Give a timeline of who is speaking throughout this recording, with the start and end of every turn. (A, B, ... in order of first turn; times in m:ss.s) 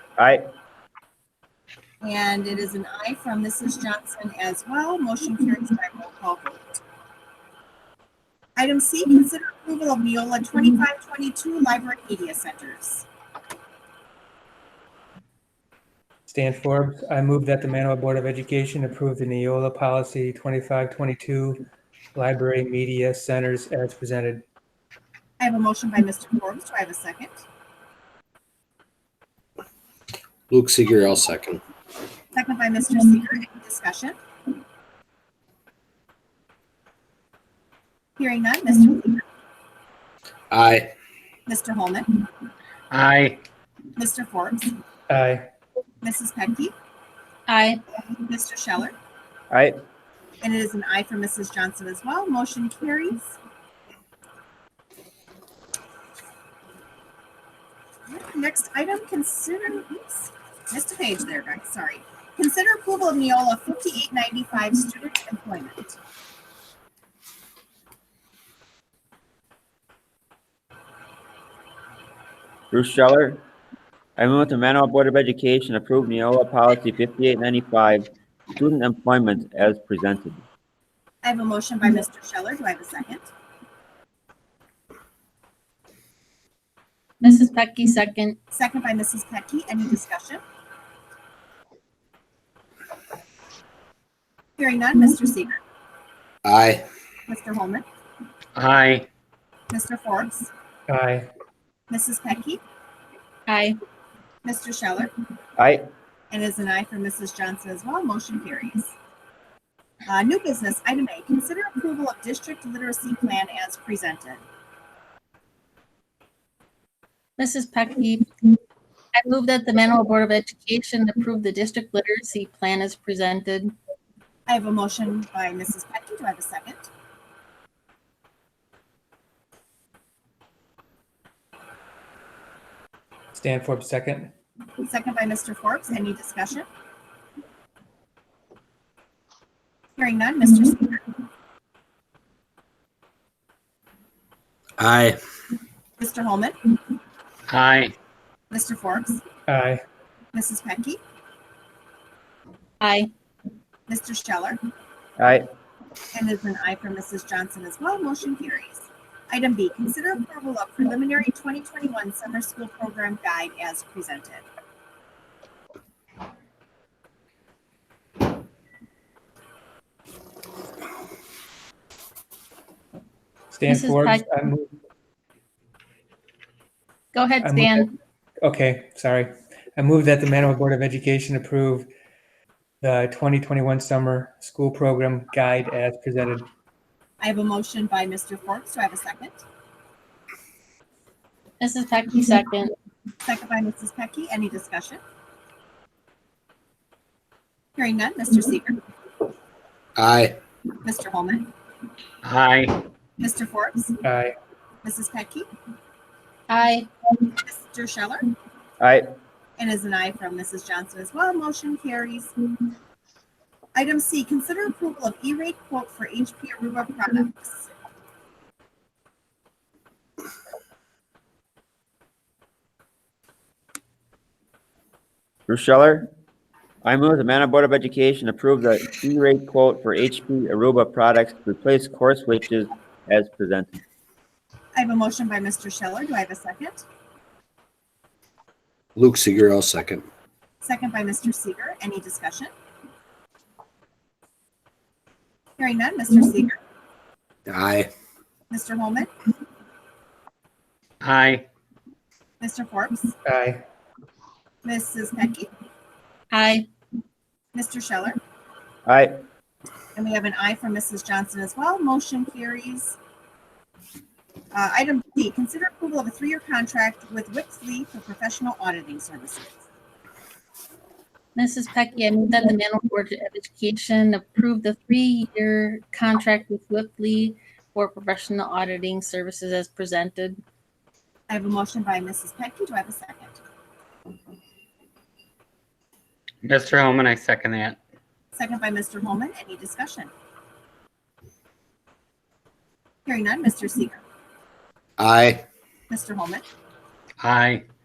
0:02.0-0:06.8 A
0:08.6-0:13.1 A
0:16.3-0:24.4 B
0:25.4-0:27.4 A
0:30.5-0:31.6 C
0:32.3-0:34.2 A
0:38.2-0:39.2 A
0:40.5-0:40.9 C
0:41.5-0:42.1 A
0:42.9-0:43.4 D
0:44.0-0:44.7 A
0:45.1-0:45.5 B
0:46.0-0:46.7 A
0:47.5-0:47.8 E
0:48.1-0:48.9 A
0:50.4-0:53.4 A
0:58.1-1:06.0 A
1:12.7-1:13.4 F
1:14.2-1:20.4 F
1:21.2-1:23.3 A
1:27.2-1:28.4 E
1:28.5-1:30.4 A
1:34.6-1:35.6 A
1:36.4-1:36.8 C
1:37.3-1:37.8 A
1:38.6-1:39.1 D
1:39.7-1:40.5 A
1:40.9-1:41.3 B
1:41.9-1:42.6 A
1:43.5-1:43.8 E
1:44.4-1:45.1 A
1:45.6-1:45.8 F
1:46.3-1:48.9 A
1:50.1-1:54.4 A
1:57.4-1:58.5 E
1:59.1-2:03.7 E
2:04.5-2:06.9 A
2:13.3-2:14.3 B
2:14.8-2:16.7 A
2:20.0-2:21.0 A
2:24.8-2:25.2 C
2:26.0-2:26.6 A
2:27.5-2:27.9 D
2:28.5-2:29.2 A
2:29.5-2:29.8 B
2:30.3-2:31.0 A
2:32.8-2:33.1 E
2:33.9-2:34.6 A
2:35.2-2:35.4 F
2:36.1-2:44.4 A
2:53.5-2:54.7 B
2:53.7-2:54.2 E
2:57.1-2:57.9 E
2:57.4-2:57.9 B
2:58.4-3:01.9 B
3:02.8-3:06.5 B
3:07.2-3:09.4 A
3:11.6-3:12.7 E
3:13.2-3:15.0 A
3:17.8-3:18.8 A
3:20.0-3:20.4 C
3:20.8-3:21.5 A
3:22.2-3:22.8 D
3:23.2-3:23.9 A
3:24.0-3:24.3 B
3:24.8-3:25.5 A
3:26.5-3:26.9 E
3:27.4-3:28.3 A
3:28.8-3:29.1 F
3:29.6-3:32.3 A
3:33.7-3:37.7 A
3:45.5-3:46.1 F
3:46.8-3:53.8 F
3:54.7-3:56.8 A
3:59.0-4:00.0 C
4:00.6-4:02.5 A
4:05.6-4:06.6 A
4:07.5-4:07.9 C
4:08.5-4:09.1 A
4:11.0-4:11.4 D
4:12.4-4:13.1 A
4:13.2-4:13.6 B
4:14.6-4:15.5 A
4:16.3-4:16.7 E
4:17.5-4:18.2 A
4:18.8-4:19.1 F
4:20.0-4:23.0 A
4:24.5-4:29.6 A
4:31.4-4:40.4 E
4:41.3-4:43.4 A
4:46.4-4:47.8 D
4:48.3-4:50.1 A
4:53.0-4:54.0 A
4:55.0-4:55.4 C
4:55.9-4:56.4 A
4:57.2-4:57.6 D